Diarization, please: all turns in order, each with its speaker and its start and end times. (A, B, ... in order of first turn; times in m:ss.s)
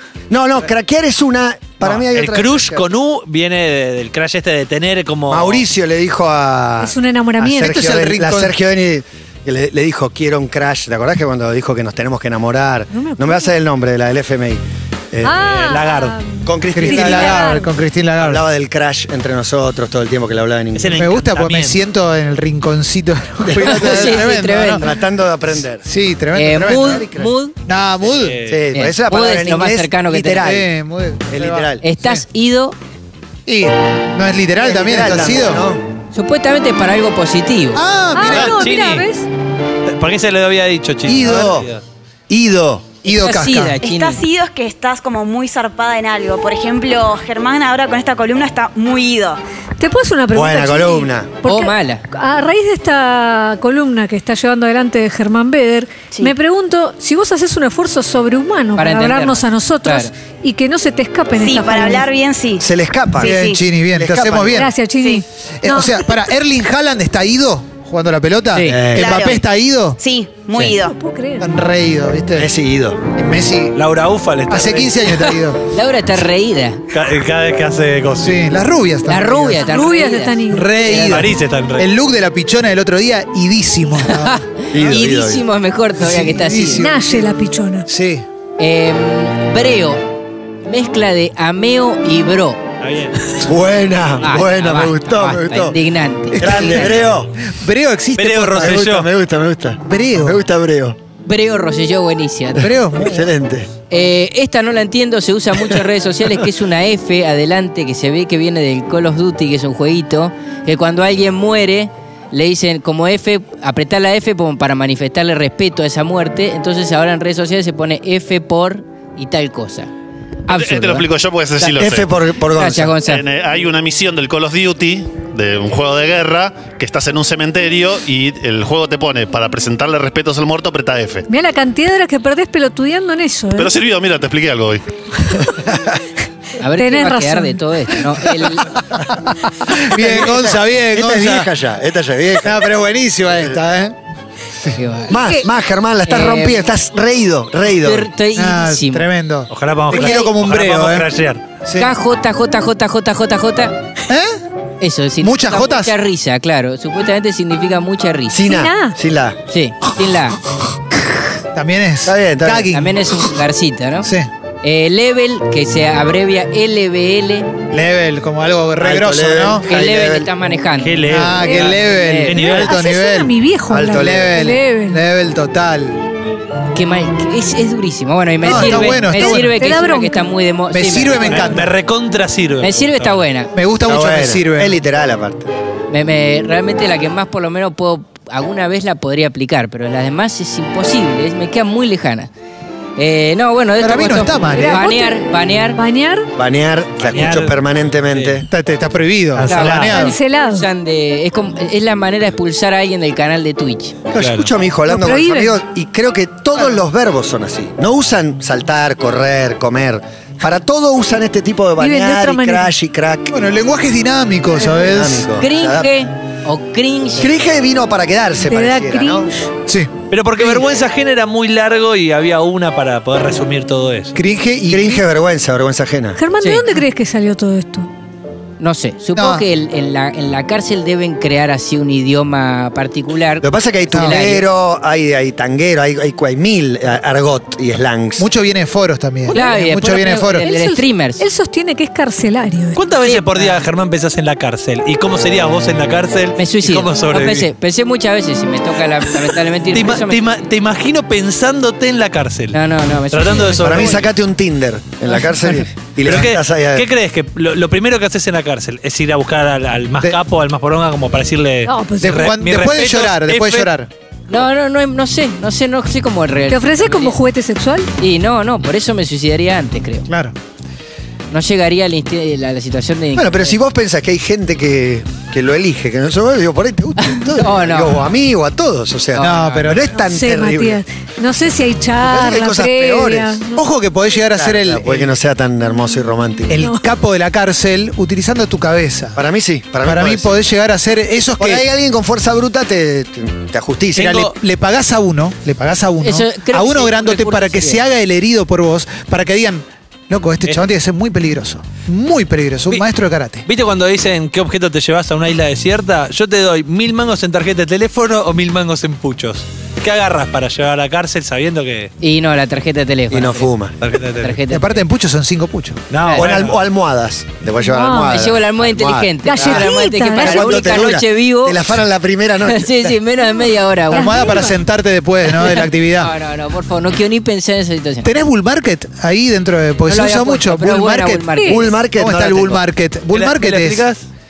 0:00.3-0:02.8 A
0:01.8-0:05.6 B
0:05.3-0:15.3 A
0:06.8-0:07.8 C
0:07.6-0:08.6 D
0:12.9-0:13.5 C
0:15.2-0:17.7 C
0:15.3-0:16.2 B
0:16.4-0:17.6 A
0:16.7-0:18.4 D
0:18.2-0:21.0 A
0:20.7-0:21.8 B
0:20.9-0:24.9 D
0:23.4-0:25.8 A
0:23.6-0:24.8 E
0:25.8-0:27.1 D
0:26.3-0:27.5 E
0:26.6-0:27.3 A
0:27.6-0:28.4 D
0:28.0-0:28.6 B
0:28.5-0:30.7 A
0:28.7-0:30.5 E
0:30.3-0:32.2 D
0:31.3-0:31.8 A
0:31.8-0:32.8 E
0:33.4-0:35.6 D
0:34.6-0:35.8 A
0:36.1-0:37.8 E
0:37.7-0:38.6 D
0:38.1-0:39.2 C
0:38.3-0:39.0 B
0:39.8-0:41.8 B
0:41.1-0:41.7 A
0:42.3-0:42.9 A
0:43.0-0:43.8 D
0:43.0-0:44.2 E
0:43.8-0:49.4 F
0:49.8-1:02.1 C
0:50.3-0:51.3 A
0:51.4-0:52.0 E
0:58.8-1:00.1 E
1:01.4-1:02.6 F
1:02.6-1:04.7 A
1:03.2-1:03.6 F
1:03.2-1:04.7 D
1:04.5-1:06.1 C
1:05.6-1:10.0 D
1:08.5-1:08.9 E
1:08.7-1:09.2 A
1:09.0-1:09.4 F
1:10.0-1:11.0 F
1:10.7-1:11.5 C
1:11.4-1:12.5 D
1:12.4-1:13.0 A
1:13.1-1:13.8 D
1:13.7-1:15.4 B
1:14.5-1:15.6 D
1:15.6-1:16.8 E
1:16.9-1:18.5 B
1:18.2-1:19.7 D
1:19.1-1:21.2 E
1:19.5-1:20.7 C
1:20.5-1:24.4 D
1:20.9-1:21.9 B
1:24.0-1:26.9 E
1:24.7-1:25.4 A
1:26.0-1:27.2 D
1:26.7-1:27.9 C
1:27.9-1:28.2 D
1:28.6-1:30.1 E
1:30.6-1:32.6 E
1:32.8-1:33.3 B
1:33.4-1:35.8 A
1:34.2-1:36.9 E
1:36.3-1:38.8 D
1:36.4-1:37.3 A
1:38.2-1:39.1 B
1:38.6-1:41.0 A
1:39.8-1:40.4 D
1:41.2-1:42.7 E
1:42.6-1:43.3 D
1:42.6-1:43.7 A
1:43.9-1:59.9 E
2:00.5-2:01.1 E
2:00.5-2:02.1 G
2:01.6-2:03.0 A
2:02.5-2:03.2 E
2:03.0-2:11.3 G
2:11.3-2:13.8 C
2:13.5-2:14.8 G
2:16.6-2:18.8 E
2:16.7-2:17.6 C
2:18.2-2:21.5 D
2:19.7-2:22.6 A
2:22.4-2:23.9 D
2:24.8-2:25.2 E
2:25.1-2:28.1 A
2:25.1-2:25.4 C
2:26.0-2:26.6 E
2:27.8-2:29.0 E
2:28.4-2:31.1 D
2:29.5-2:31.4 B
2:31.6-2:31.9 D
2:31.7-2:33.8 E
2:34.1-2:34.4 D
2:34.8-2:38.4 E
2:35.2-2:35.9 D
2:38.3-2:39.4 A
2:38.4-2:39.0 C
2:39.5-2:40.4 E
2:40.9-2:41.2 E
2:41.5-2:43.2 D
2:42.0-2:42.7 A
2:42.7-2:44.1 E
2:44.0-2:44.3 D
2:44.6-2:47.5 E
2:47.7-2:49.7 D
2:48.8-2:50.3 A
2:49.6-2:52.4 E
2:50.8-2:52.7 B
2:51.1-2:56.0 D
2:51.5-2:51.8 C
2:52.4-2:55.0 C
2:53.7-2:54.4 A
2:56.7-3:01.6 E
2:58.4-2:59.6 D
2:58.4-3:00.4 C
3:00.7-3:01.7 D
3:01.2-3:03.2 B
3:02.6-3:03.5 E
3:03.5-3:04.8 D
3:03.8-3:05.5 A
3:05.9-3:12.3 E
3:13.0-3:15.8 E
3:13.8-3:14.8 D
3:14.5-3:16.3 C
3:16.4-3:18.5 A
3:17.0-3:18.4 B
3:18.5-3:20.1 D
3:19.4-3:23.9 E
3:19.4-3:20.0 B
3:19.9-3:20.7 C
3:24.1-3:33.3 A
3:24.2-3:24.5 B
3:24.9-3:25.6 C
3:26.5-3:26.8 D
3:31.8-3:32.7 C
3:33.3-3:35.3 D
3:34.6-3:35.9 A
3:35.4-3:37.4 E
3:37.2-3:39.3 A
3:38.4-3:39.5 C
3:39.7-3:40.6 D
3:40.1-3:44.2 B
3:44.1-3:45.0 D
3:44.7-3:46.2 A
3:46.2-3:47.9 C
3:48.6-3:54.4 E
3:49.1-3:49.4 D
3:53.4-3:58.3 A
3:53.9-3:54.2 D
3:58.2-4:00.5 D
3:59.3-3:59.5 C
3:59.3-4:01.2 E
4:00.4-4:02.8 C
4:02.7-4:07.5 B
4:03.0-4:03.6 E
4:06.4-4:10.2 E
4:09.2-4:12.6 B
4:12.5-4:14.0 E
4:13.1-4:14.1 B
4:13.6-4:16.8 A
4:16.0-4:23.7 B
4:21.6-4:22.2 C
4:22.0-4:23.9 D
4:24.3-4:27.2 E
4:26.5-4:27.9 C
4:28.0-4:30.1 E
4:30.1-4:30.3 D
4:31.3-4:33.5 E
4:33.1-4:40.8 A
4:37.0-4:38.0 E
4:39.1-4:39.8 E
4:39.2-4:39.9 D
4:40.0-4:43.6 C
4:42.0-4:43.4 A
4:43.5-4:45.2 D
4:44.3-4:46.6 A
4:46.5-4:49.2 D
4:49.1-4:50.3 A
4:49.8-4:51.6 D
4:51.4-4:54.2 A
4:53.9-5:03.5 D
4:54.0-4:54.3 B
4:56.0-4:57.8 E
5:03.4-5:11.9 B
5:12.0-5:13.5 E
5:13.1-5:13.8 A
5:13.8-5:14.4 B
5:14.1-5:14.8 E
5:14.5-5:15.8 D
5:15.9-5:16.6 B
5:16.2-5:23.0 A
5:17.6-5:18.2 C
5:18.0-5:21.7 E
5:19.2-5:20.8 C
5:22.5-5:24.4 E
5:23.9-5:24.6 C
5:23.9-5:26.1 D
5:25.3-5:28.1 E
5:28.0-5:31.3 D
5:29.9-5:31.8 E
5:31.3-5:31.7 C
5:31.4-5:32.6 A
5:31.9-5:33.8 D
5:33.1-5:34.0 B